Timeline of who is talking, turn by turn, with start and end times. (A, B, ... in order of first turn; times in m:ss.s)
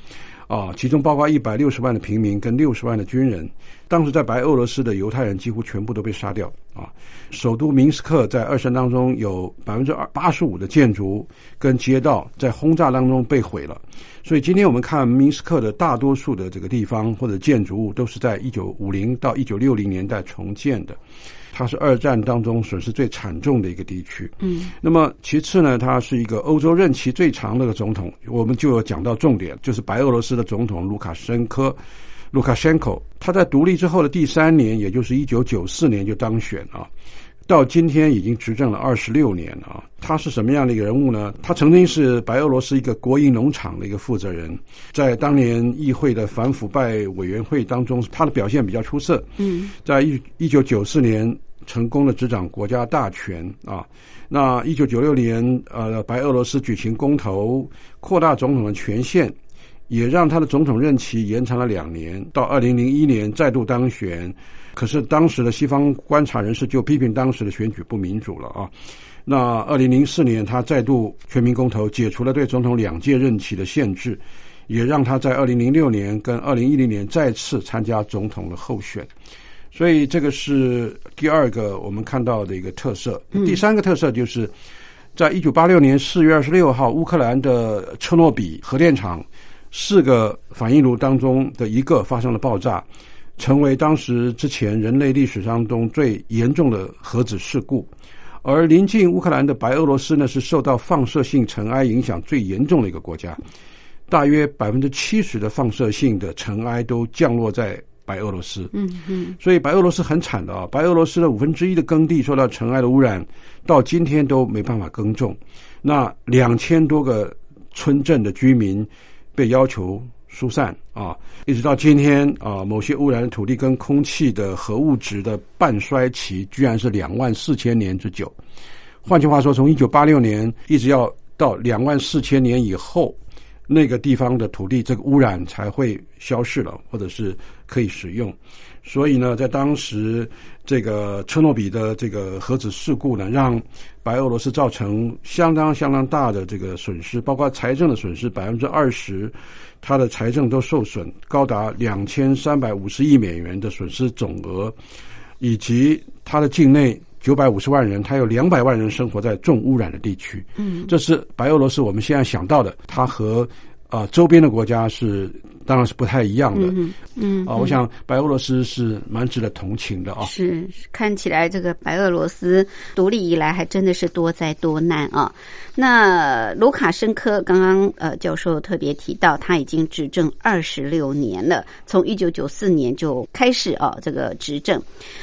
0:00.5-0:21.0 A
0:21.5-0:31.8 A
0:24.4-0:24.7 B
0:32.3-0:36.9 A
0:37.5-0:59.3 A
0:49.4-0:49.7 B
0:59.9-1:08.7 A
1:09.2-1:19.1 A
1:19.7-1:24.5 A
1:25.2-1:32.8 A
1:33.4-1:37.9 A
1:38.4-1:43.4 A
1:44.1-1:48.7 A
1:48.7-1:49.4 B
1:49.4-2:08.3 A
2:09.0-2:13.2 A
2:13.7-2:34.8 A
2:35.4-2:46.8 A
2:40.6-2:40.9 B
2:46.5-2:47.8 B
2:47.4-2:50.3 A
2:50.2-3:04.8 B